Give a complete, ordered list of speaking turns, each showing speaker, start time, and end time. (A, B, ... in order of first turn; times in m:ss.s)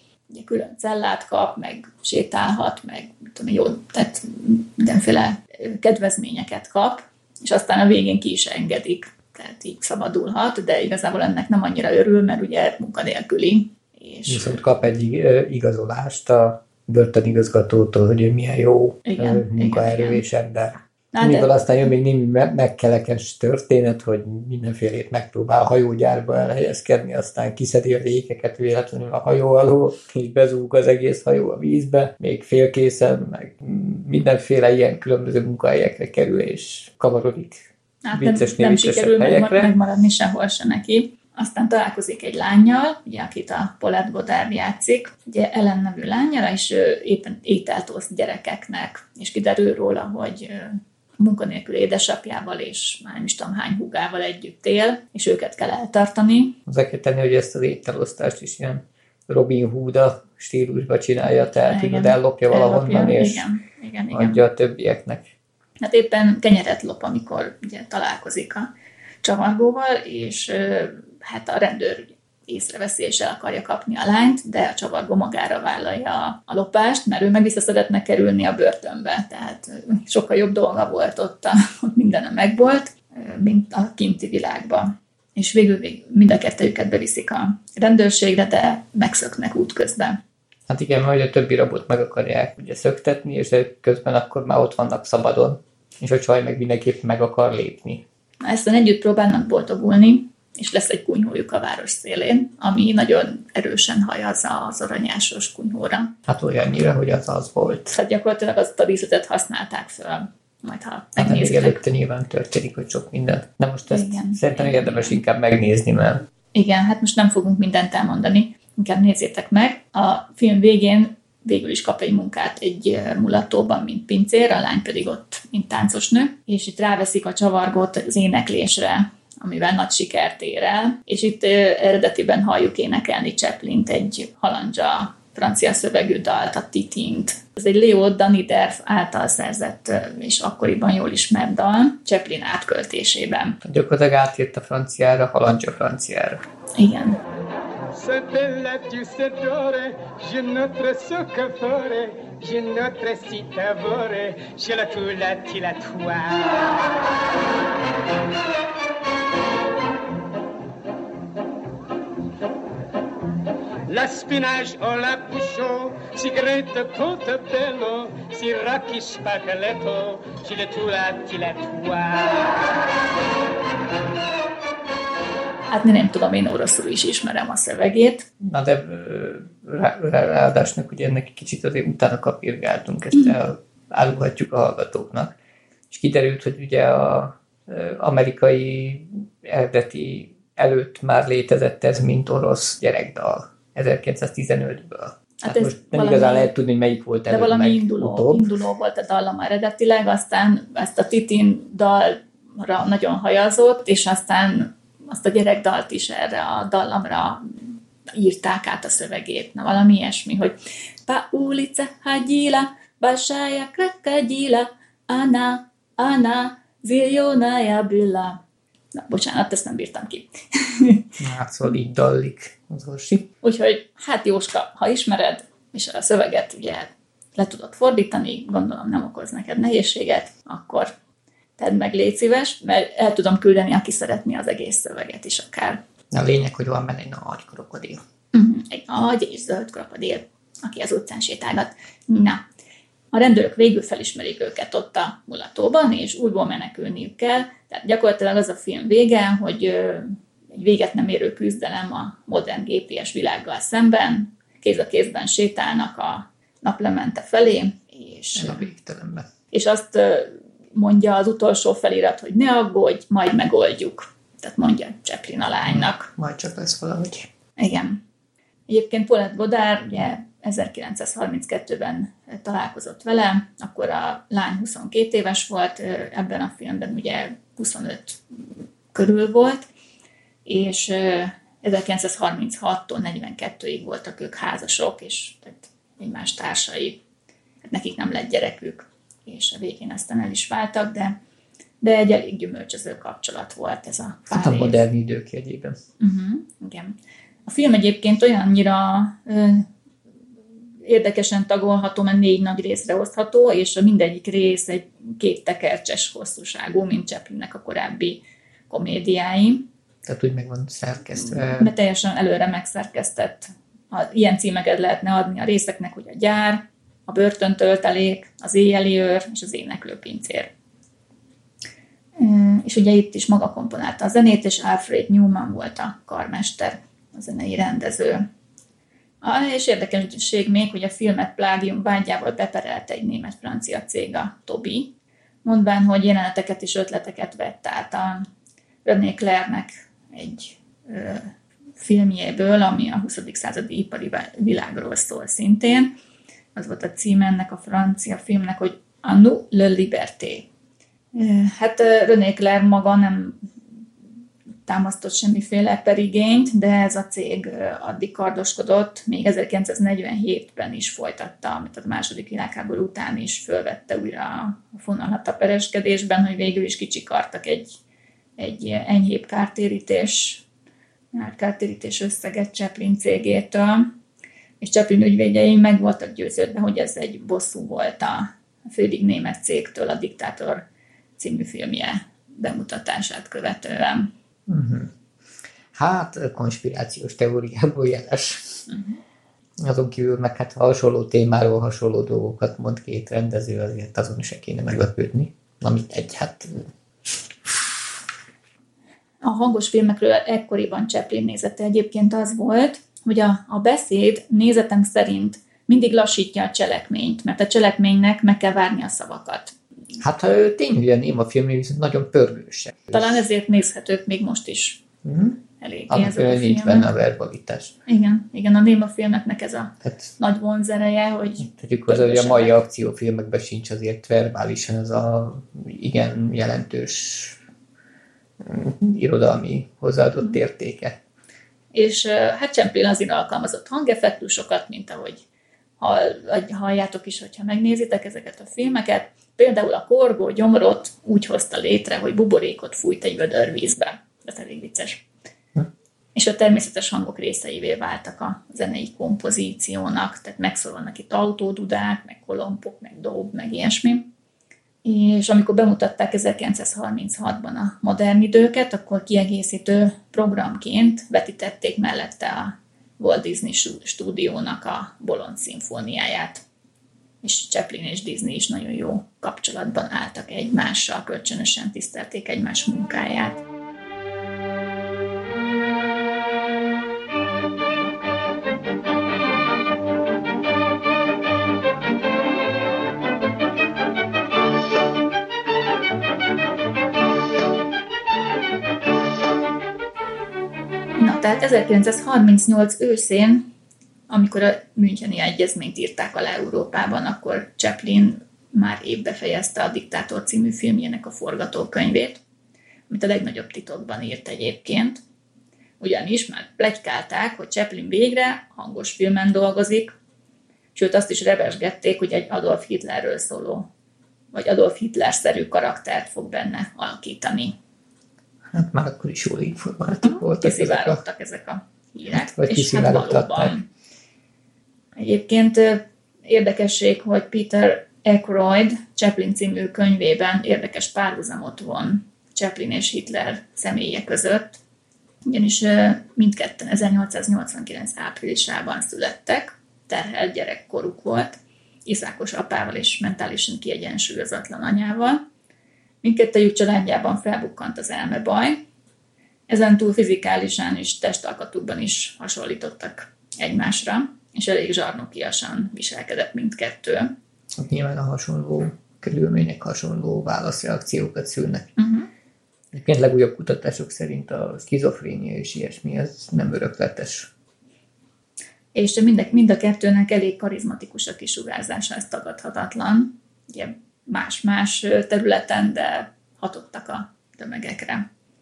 0:00.3-0:14.6 A
0:14.3-0:39.7 B
0:19.0-0:20.2 A
0:21.1-0:21.6 A
0:38.0-0:56.6 A
0:56.7-1:03.4 B
1:01.4-1:04.4 A
1:04.1-1:05.3 B
1:05.8-1:08.7 A
1:09.2-1:30.2 A
1:30.7-1:38.0 B
1:38.4-1:46.1 A
1:46.3-1:48.0 B
1:47.9-1:51.8 A
1:51.2-1:56.2 B
1:53.9-1:55.2 A
1:56.5-2:23.6 A
2:23.6-2:26.4 B
2:26.8-2:27.2 A
2:27.9-2:36.8 C
2:43.9-2:52.6 C
2:55.7-2:58.3 A
2:58.4-3:05.3 B
3:05.9-3:18.5 B
3:15.4-3:16.5 A
3:17.3-3:30.5 A
3:31.0-3:38.4 A
3:38.9-3:41.1 A
3:41.2-3:43.3 B
3:43.4-3:50.9 A
3:51.6-3:55.8 A
3:56.1-3:58.0 B
3:58.3-4:02.4 A
4:03.1-4:18.7 A
4:18.3-4:19.3 B
4:19.5-4:26.1 A
4:25.6-4:27.3 B
4:27.6-4:28.0 A
4:28.7-4:38.2 A
4:38.9-4:39.7 A
4:40.4-4:47.0 A
4:47.6-4:51.1 A
4:51.8-4:54.8 A
4:54.3-4:55.8 B
4:56.0-4:56.9 A
4:57.4-4:59.7 A
5:00.8-5:09.6 A
5:10.0-5:11.7 B
5:11.2-5:20.5 A
5:22.2-5:28.2 A
5:29.2-5:34.9 A
5:35.4-5:38.2 A
5:38.8-5:45.9 A
5:46.5-5:50.4 A
5:51.1-5:53.4 A
5:54.6-6:07.8 A
6:08.4-6:10.4 A
6:11.1-6:13.9 A
6:14.6-6:20.6 A
6:21.2-6:24.1 A
6:24.5-6:24.9 B
6:25.7-6:28.7 B
6:28.7-6:29.0 A
6:29.6-6:36.7 B
6:39.2-6:49.5 A
6:50.0-6:53.0 B
6:52.9-6:54.8 A
6:55.0-6:55.4 B
6:55.6-6:56.9 A
6:55.9-6:57.7 B
6:57.9-7:02.6 A
6:59.8-7:00.1 B
7:01.5-7:07.4 B
7:08.4-7:11.0 B
7:11.7-7:15.2 A
7:15.8-7:25.0 A
7:26.1-7:34.0 A
7:34.8-7:46.4 A
7:47.2-7:53.4 A
8:11.0-8:13.4 A
8:14.1-8:22.2 A
8:22.9-8:25.0 A
8:25.8-8:29.9 A
8:30.7-8:33.7 A
8:34.3-8:37.5 A
8:38.5-8:41.0 B
8:40.0-8:43.7 A
8:42.1-8:43.5 B
8:45.0-8:54.6 A
8:55.3-9:05.2 A
9:06.0-9:08.6 A
9:09.5-9:17.1 A
9:17.6-9:21.7 B
9:21.8-9:22.1 A
9:22.7-9:27.3 B
9:28.7-9:38.0 A